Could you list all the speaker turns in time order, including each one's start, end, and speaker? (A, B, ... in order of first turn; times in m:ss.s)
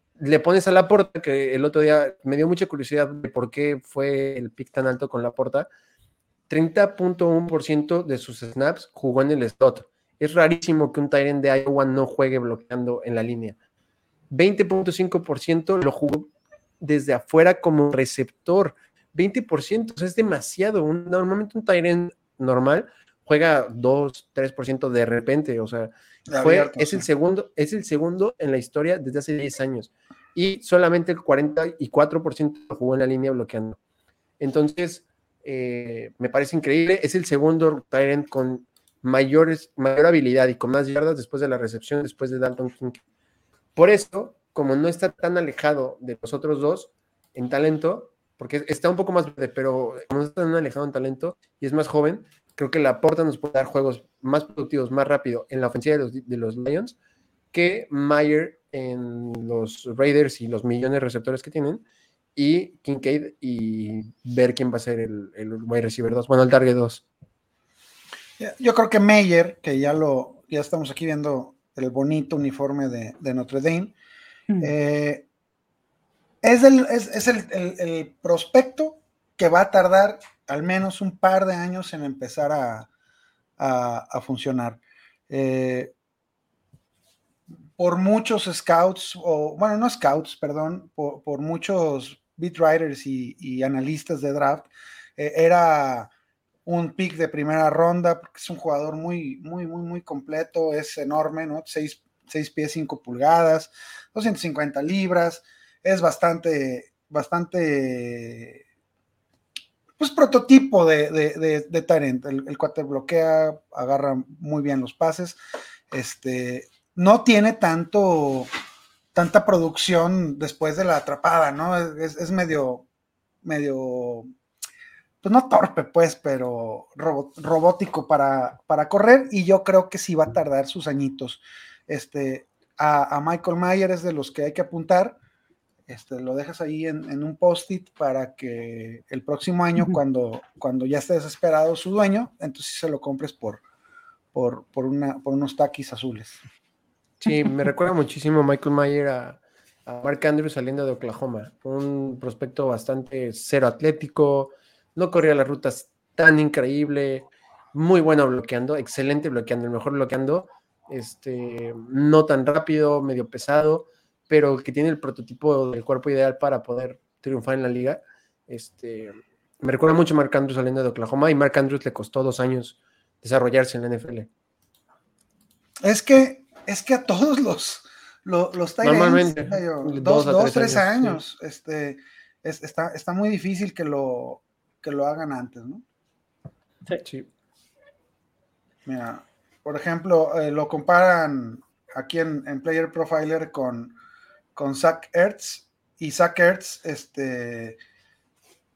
0:00.2-0:05.7 A
0:06.5-0:13.6 A
0:14.3-0:16.3 A
0:16.8-0:33.8 A
0:26.3-0:27.1 B
0:34.4-0:43.0 A
0:43.8-0:57.0 A
0:57.5-1:01.8 A
1:02.4-1:07.0 A
1:08.4-1:13.9 B
1:14.6-1:15.2 B
1:16.4-1:22.9 B
1:23.6-1:25.9 B
1:27.8-1:36.1 B
1:36.6-1:48.6 B
1:50.0-1:55.4 B
1:55.9-1:58.5 B
1:59.1-2:02.8 B
2:03.4-2:04.3 B
2:05.2-2:15.2 B
2:15.9-2:23.6 B
2:24.3-2:26.4 B
2:27.2-2:54.3 A
2:55.8-3:05.8 B
2:58.8-3:01.2 A
3:08.8-3:13.9 B
3:14.5-3:17.8 B